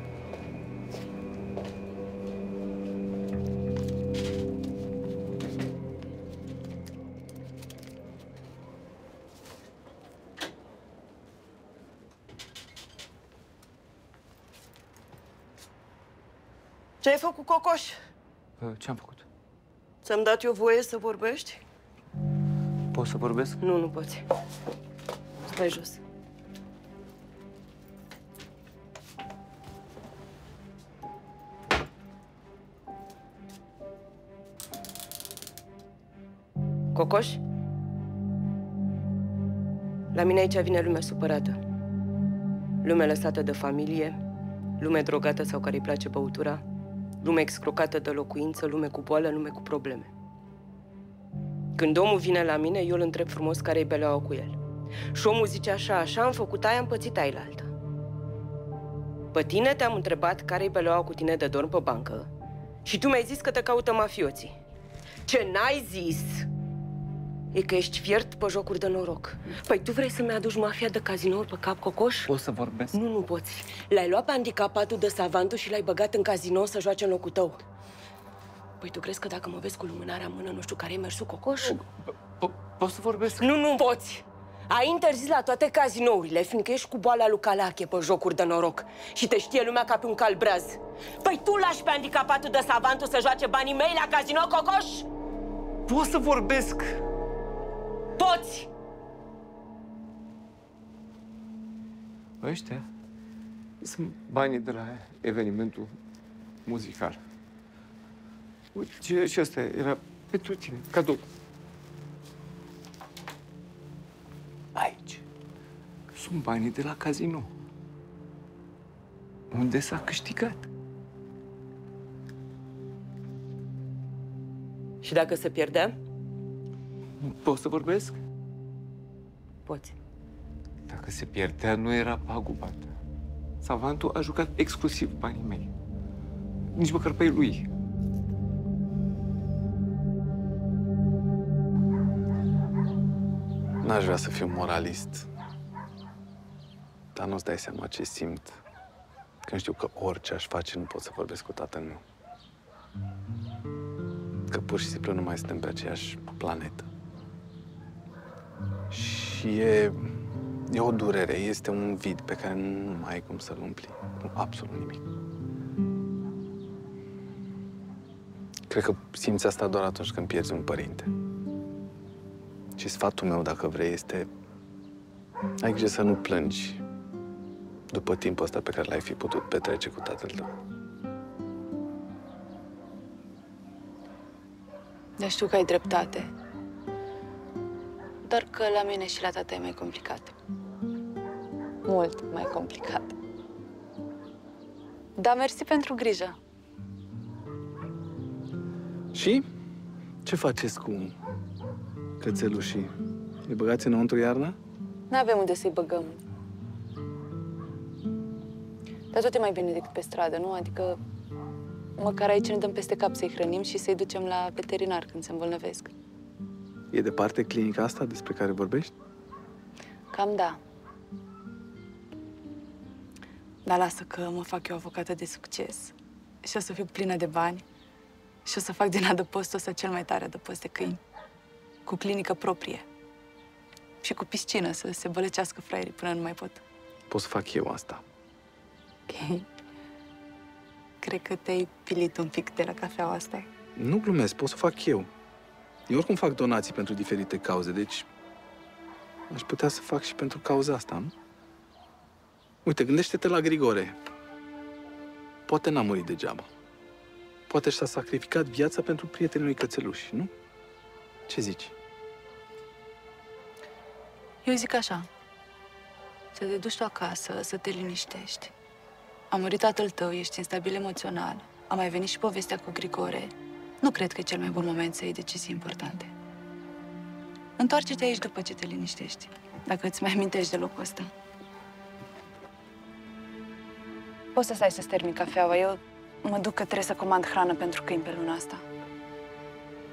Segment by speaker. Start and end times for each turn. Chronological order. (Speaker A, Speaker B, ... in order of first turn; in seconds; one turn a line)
Speaker A: 17.0-18.0
Speaker B: 18.6-19.2
Speaker A: 20.0-21.6
Speaker B: 22.9-23.6
Speaker A: 23.6-24.2
Speaker A: 25.5-26.0
Speaker A: 36.9-37.4
Speaker A: 40.1-41.6
Speaker A: 42.8-44.2
Speaker A: 44.8-46.6
Speaker A: 47.2-50.1
Speaker A: 51.8-54.6
Speaker A: 55.1-57.7
Speaker A: 59.3-62.3
Speaker A: 62.8-64.5
Speaker A: 65.3-66.5
Speaker A: 67.5-72.3
Speaker B: 72.3-73.0
Speaker A: 72.9-77.6
Speaker A: 78.8-81.7
Speaker B: 82.4-83.5
Speaker A: 83.4-95.1
Speaker B: 95.9-97.0
Speaker A: 98.2-98.7
Speaker B: 102.4-102.8
Speaker B: 103.8-106.0
Speaker B: 106.7-107.2
Speaker B: 108.7-111.2
Speaker B: 114.7-115.2
Speaker B: 116.1-117.5
Speaker B: 119.5-120.7
Speaker A: 125.0-125.9
Speaker B: 127.2-128.2
Speaker A: 129.7-129.9
Speaker B: 130.9-132.9
Speaker B: 133.6-135.7
Speaker B: 136.7-137.7
Speaker C: 143.8-145.3
Speaker C: 147.1-148.6
Speaker C: 149.4-152.0
Speaker C: 154.5-156.9
Speaker C: 158.9-160.1
Speaker C: 160.7-165.0
Speaker C: 168.7-171.1
Speaker C: 172.8-174.3
Speaker C: 175.6-176.8
Speaker C: 177.9-180.5
Speaker D: 185.2-186.3
Speaker D: 188.2-190.3
Speaker D: 191.8-193.2
Speaker D: 195.2-196.3
Speaker C: 199.1-199.4
Speaker C: 200.2-201.1
Speaker C: 202.2-202.9
Speaker C: 203.4-204.6
Speaker D: 205.1-206.2
Speaker D: 209.1-211.0
Speaker D: 212.0-215.9
Speaker C: 216.9-218.9
Speaker D: 220.1-220.6
Speaker D: 223.6-227.6
Speaker D: 228.4-231.0
Speaker D: 231.8-232.8
Speaker D: 234.0-236.6
Speaker C: 237.1-238.0
Speaker D: 239.1-239.4
Speaker D: 241.0-243.5
Speaker C: 243.8-245.1
Speaker C: 245.9-248.1
Speaker C: 249.3-251.1
Speaker C: 252.6-253.9
Speaker C: 255.5-256.5
Speaker C: 257.5-260.3
Speaker C: 261.3-261.7
Speaker D: 264.4-265.1
Speaker D: 266.3-268.5
Speaker D: 269.3-276.1
Speaker D: 277.6-281.1
Speaker D: 284.3-288.6